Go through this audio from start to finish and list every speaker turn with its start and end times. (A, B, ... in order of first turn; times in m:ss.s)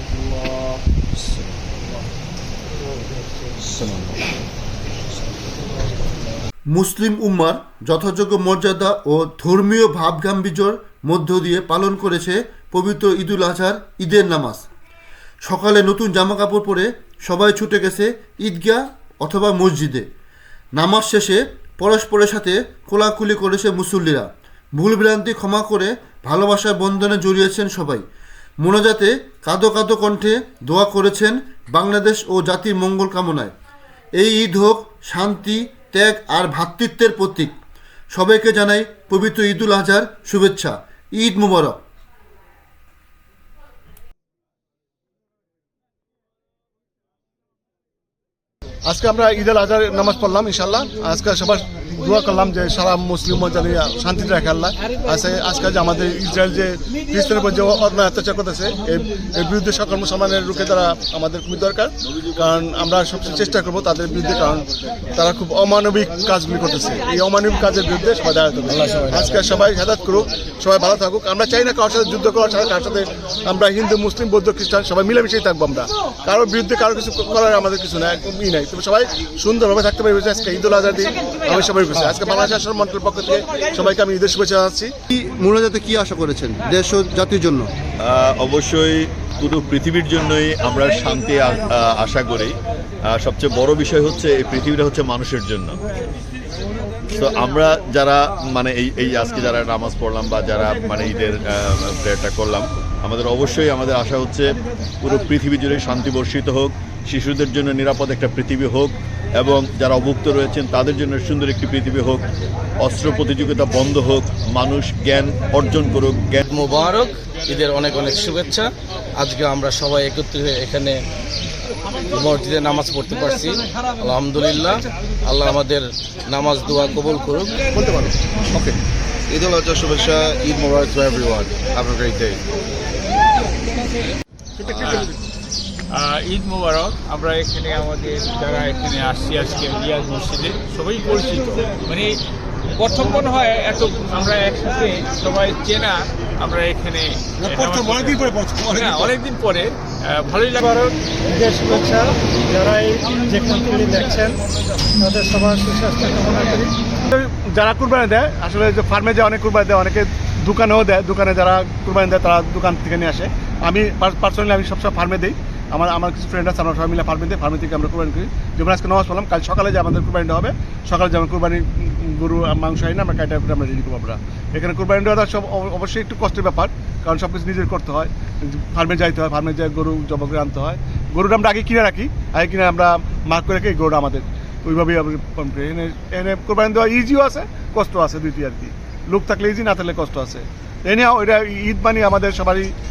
0:06.7-0:14.6 A
0:15.4-0:20.0 A
0:20.8-0:28.0 A
0:28.6-0:33.5 A
0:34.2-0:37.5 A
0:38.1-0:41.8 A
0:48.8-1:24.9 B
1:08.7-1:09.4 C
1:25.1-1:27.7 A
1:28.0-1:32.5 D
1:33.1-1:35.8 D
1:37.1-1:52.2 D
1:52.8-1:56.5 D
1:56.4-1:58.7 C
1:59.2-2:00.9 C
2:02.1-2:07.5 C
2:07.7-2:08.7 B
2:09.3-2:12.4 E
2:14.6-2:15.1 F
2:15.9-2:22.2 F
2:22.8-2:30.9 F
2:31.3-2:34.4 G
2:35.0-2:36.7 G
2:37.1-3:12.7 B